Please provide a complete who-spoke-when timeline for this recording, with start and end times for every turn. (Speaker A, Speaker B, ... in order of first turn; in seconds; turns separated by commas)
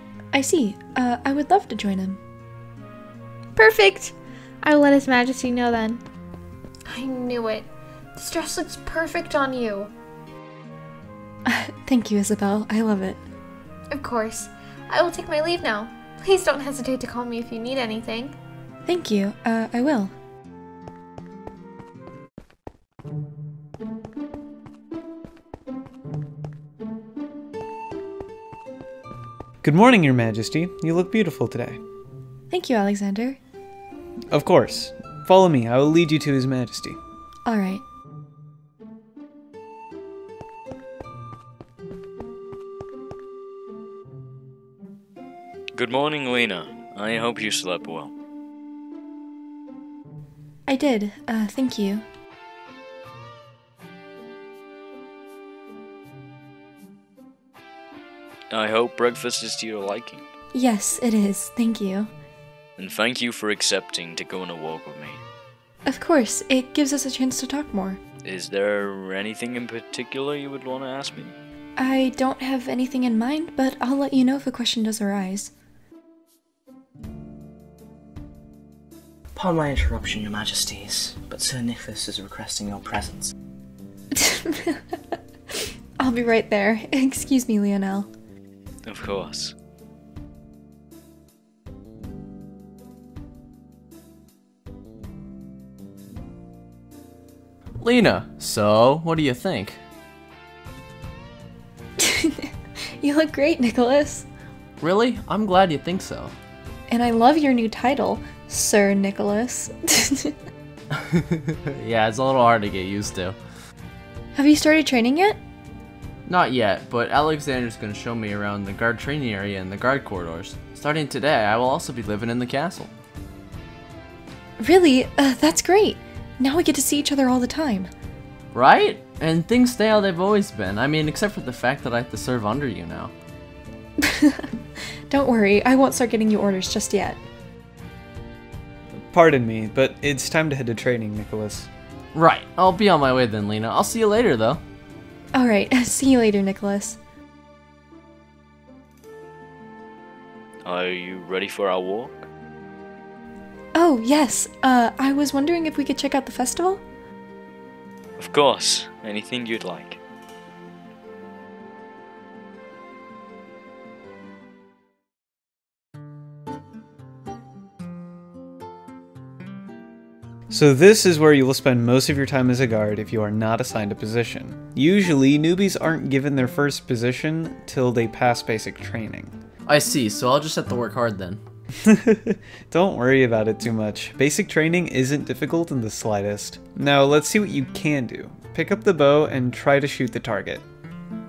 Speaker A: 0.3-2.2, Speaker B: 3.5-6.0, Speaker B: 6.9-9.9, Speaker A: 11.4-13.2, Speaker B: 13.9-18.3, Speaker A: 18.9-20.1, Speaker C: 29.6-31.8, Speaker A: 32.5-33.4, Speaker C: 34.3-37.0, Speaker A: 37.4-37.8, Speaker D: 45.7-48.1, Speaker A: 50.7-52.0, Speaker D: 58.5-60.2, Speaker A: 60.5-62.1, Speaker D: 62.8-65.2, Speaker A: 65.8-68.0, Speaker D: 68.2-71.3, Speaker A: 71.8-75.5, Speaker E: 79.3-83.3, Speaker A: 84.2-84.8, Speaker A: 86.0-88.1, Speaker D: 88.8-89.5, Speaker F: 97.8-99.8, Speaker A: 102.0-102.5, Speaker A: 103.0-104.2, Speaker F: 104.8-106.3, Speaker A: 106.9-110.3, Speaker F: 111.3-113.3, Speaker A: 114.3-115.4, Speaker F: 116.2-122.9, Speaker A: 124.6-127.9, Speaker F: 128.5-133.1, Speaker A: 134.0-134.5, Speaker A: 135.1-137.2, Speaker C: 138.9-141.7, Speaker F: 142.1-144.6, Speaker A: 145.3-147.0, Speaker D: 150.6-152.2, Speaker A: 153.7-156.8, Speaker D: 158.2-160.0, Speaker C: 170.5-179.3, Speaker F: 179.7-181.4, Speaker C: 181.8-190.6